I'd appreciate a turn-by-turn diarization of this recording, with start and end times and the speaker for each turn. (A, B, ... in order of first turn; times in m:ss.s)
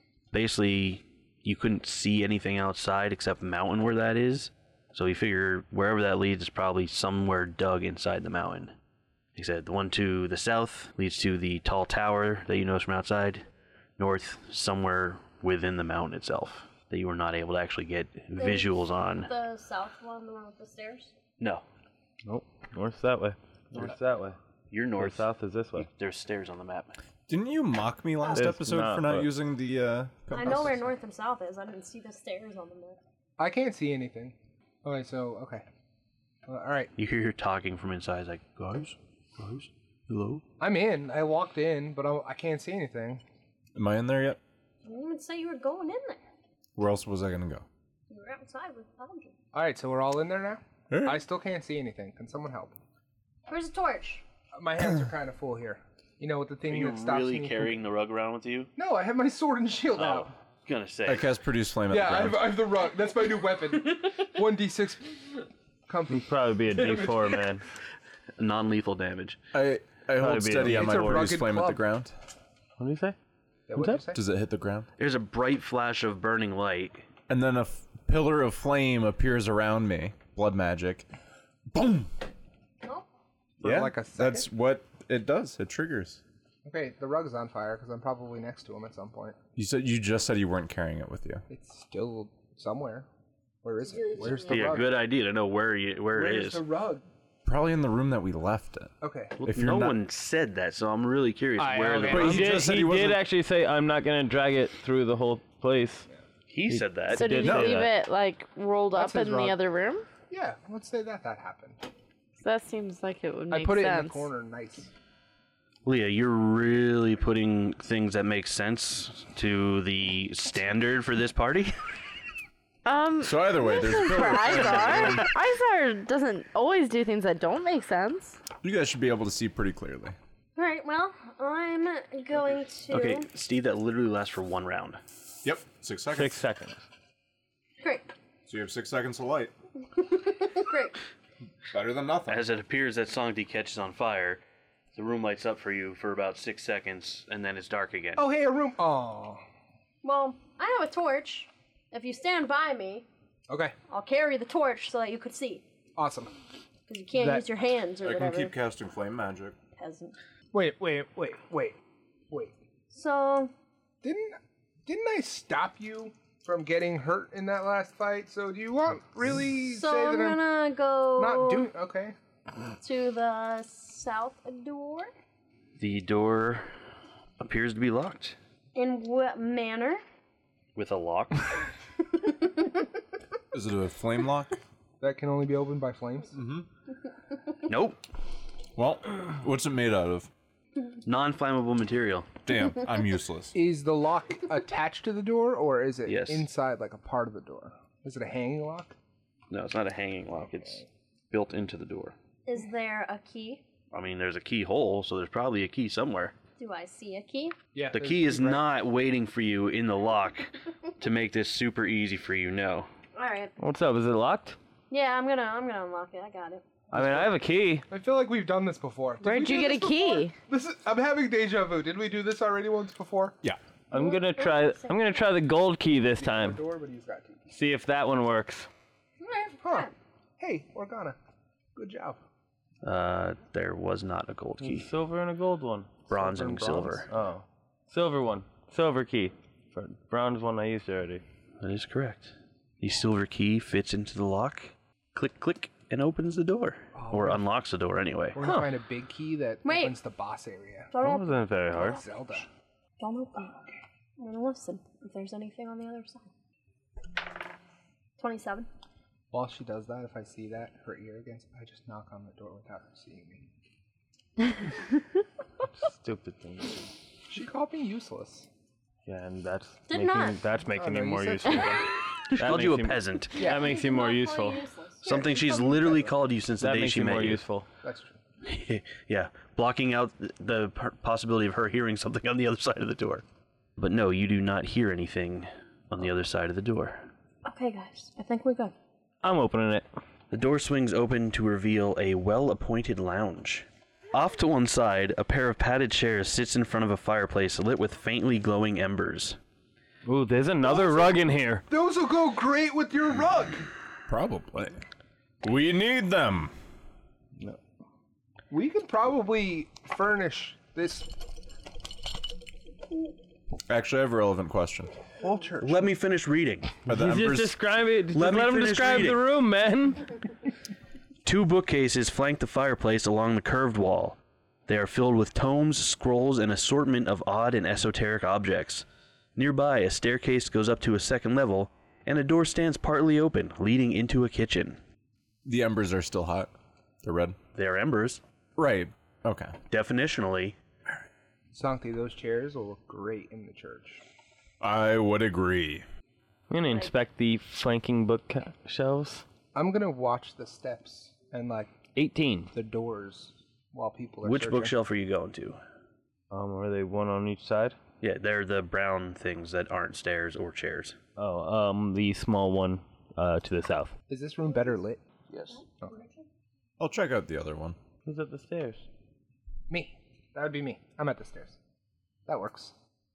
0:00.3-0:08.8 A
0:09.4-0:13.4 A
0:14.0-0:19.3 A
0:18.4-0:21.1 B
0:21.4-0:21.6 A
0:22.2-0:24.4 C
0:24.7-0:27.0 A
0:24.9-0:25.9 C
0:27.3-0:30.8 D
0:28.3-0:29.3 C
0:30.3-0:33.0 B
0:33.4-0:35.6 E
0:36.5-0:36.9 E
0:37.0-0:40.4 A
0:40.6-0:43.2 E
0:43.8-0:44.4 D
0:44.8-0:46.2 B
0:46.8-0:47.6 D
0:48.1-0:49.3 B
0:49.5-0:52.7 E
0:50.9-0:51.2 D
0:53.5-0:54.2 B
0:54.6-0:57.8 E
0:56.7-0:58.7 A
0:58.8-1:00.3 E
0:59.9-1:01.3 A
1:01.0-1:02.6 D
1:01.9-1:07.3 E
1:06.1-1:07.6 C
1:08.4-1:09.4 A
1:09.5-1:12.1 D
1:10.2-1:11.0 C
1:10.6-1:11.8 E
1:12.8-1:13.2 C
1:13.7-1:14.2 E
1:13.7-1:14.0 C
1:14.1-1:14.9 D
1:15.0-1:17.0 A
1:17.3-1:21.0 D
1:21.7-1:22.2 D
1:23.6-1:24.5 E
1:23.6-1:26.2 D
1:26.6-1:29.4 E
1:29.6-1:31.4 D
1:31.5-1:33.1 E
1:33.6-1:35.0 E
1:33.9-1:34.7 B
1:34.4-1:36.6 A
1:36.1-1:37.0 E
1:37.4-1:40.0 D
1:39.0-1:39.4 E
1:39.4-1:42.6 A
1:41.6-1:42.6 E
1:42.0-1:43.2 D
1:42.1-1:46.1 C
1:46.5-1:47.4 A
1:46.7-1:47.9 C
1:47.1-1:50.1 F
1:47.4-1:47.9 D
1:48.9-1:49.6 E
1:50.3-1:51.8 E
1:52.4-1:54.3 F
1:53.5-1:54.9 E
1:55.8-2:01.8 A
2:02.8-2:08.4 F
2:03.2-2:05.3 D
2:08.6-2:10.2 D
2:10.6-2:13.3 B
2:12.9-2:15.0 A
2:15.4-2:16.4 D
2:16.1-2:16.8 C
2:17.8-2:18.1 B
2:18.5-2:19.5 D
2:20.2-2:21.0 B
2:21.7-2:22.4 D
2:22.3-2:24.4 A
2:24.9-2:28.2 A
2:28.2-2:29.4 E
2:30.0-2:33.0 B
2:33.5-2:33.7 E
2:33.9-2:35.6 B
2:36.0-2:36.3 E
2:36.9-2:38.5 B
2:37.2-2:37.4 E
2:38.0-2:39.6 D
2:39.8-2:40.1 B
2:40.5-2:41.8 E
2:42.3-2:42.5 E
2:42.9-2:43.5 B
2:44.0-2:50.4 E
2:49.6-2:51.7 B
2:51.2-2:52.2 E
2:52.7-2:55.1 B
2:55.8-2:56.7 A
2:57.4-2:58.4 A
2:58.7-3:00.0 B
3:00.8-3:01.7 A
3:02.2-3:02.6 B
3:03.5-3:04.6 D
3:05.0-3:06.4 E
3:06.3-3:06.7 D
3:07.6-3:08.0 A
3:08.8-3:10.3 D
3:11.0-3:12.3 A
3:12.4-3:13.5 D
3:13.5-3:19.0 E
3:16.0-3:16.5 A
3:19.5-3:22.1 A
3:22.5-3:23.6 B
3:23.9-3:26.3 A
3:26.6-3:27.5 B
3:27.7-3:28.6 E
3:27.9-3:32.9 A
3:33.1-3:33.5 B
3:33.6-3:34.6 C
3:34.9-3:36.6 B
3:36.9-3:37.8 C
3:36.9-3:37.3 E
3:37.9-3:43.4 E
3:39.2-3:40.3 F
3:43.9-3:46.6 C
3:43.9-3:45.0 B
3:46.2-3:47.5 E
3:47.5-3:48.7 C
3:49.2-3:49.9 B
3:49.6-3:51.2 E
3:51.7-3:52.2 E
3:52.8-3:54.9 A
3:54.6-3:55.9 C
3:56.1-3:57.2 E
3:56.1-3:57.1 A
3:57.1-4:01.2 C
4:01.6-4:08.4 A
4:06.9-4:07.4 E
4:08.3-4:10.9 E
4:09.6-4:09.9 B
4:10.9-4:11.8 B
4:11.0-4:12.0 C
4:11.7-4:12.5 E
4:13.0-4:13.7 B
4:14.2-4:16.3 B
4:18.2-4:18.7 B
4:19.3-4:23.5 E
4:25.7-4:26.9 C
4:27.3-4:28.5 E
4:29.0-4:34.6 C
4:29.9-4:30.4 B
4:30.7-4:31.9 E
4:32.3-4:33.4 A
4:33.4-4:33.7 E
4:33.4-4:35.8 B
4:35.0-4:37.4 A
4:36.6-4:37.7 C
4:37.8-4:38.2 E
4:38.4-4:43.2 A
4:43.8-4:47.1 A
4:47.4-4:48.7 B
4:49.2-4:49.8 C
4:50.3-4:59.4 A
5:00.0-5:01.6 C
5:00.6-5:01.2 E
5:01.7-5:03.7 E
5:04.1-5:04.8 D
5:05.4-5:06.5 D
5:08.5-5:11.1 E
5:13.7-5:14.9 D
5:15.2-5:15.9 E
5:15.6-5:16.7 A
5:16.8-5:17.6 D
5:16.9-5:20.0 C
5:18.1-5:19.2 A
5:21.2-5:28.8 A
5:29.4-5:34.8 A
5:35.4-5:36.5 D
5:37.0-5:37.4 D
5:37.5-5:38.2 A
5:38.6-5:39.6 D
5:39.7-5:40.6 A
5:41.5-5:44.0 E
5:44.6-5:45.8 D
5:46.5-5:49.2 C
5:49.5-5:51.8 E
5:52.0-5:52.5 C
5:52.5-5:54.7 E
5:54.2-5:55.6 A
5:56.3-5:57.8 C
5:58.0-6:01.0 A
6:01.2-6:03.9 C
6:04.1-6:05.0 E
6:05.3-6:05.6 A
6:05.5-6:06.2 B
6:06.8-6:07.8 D
6:08.0-6:08.8 C
6:09.7-6:11.6 E
6:12.3-6:12.7 E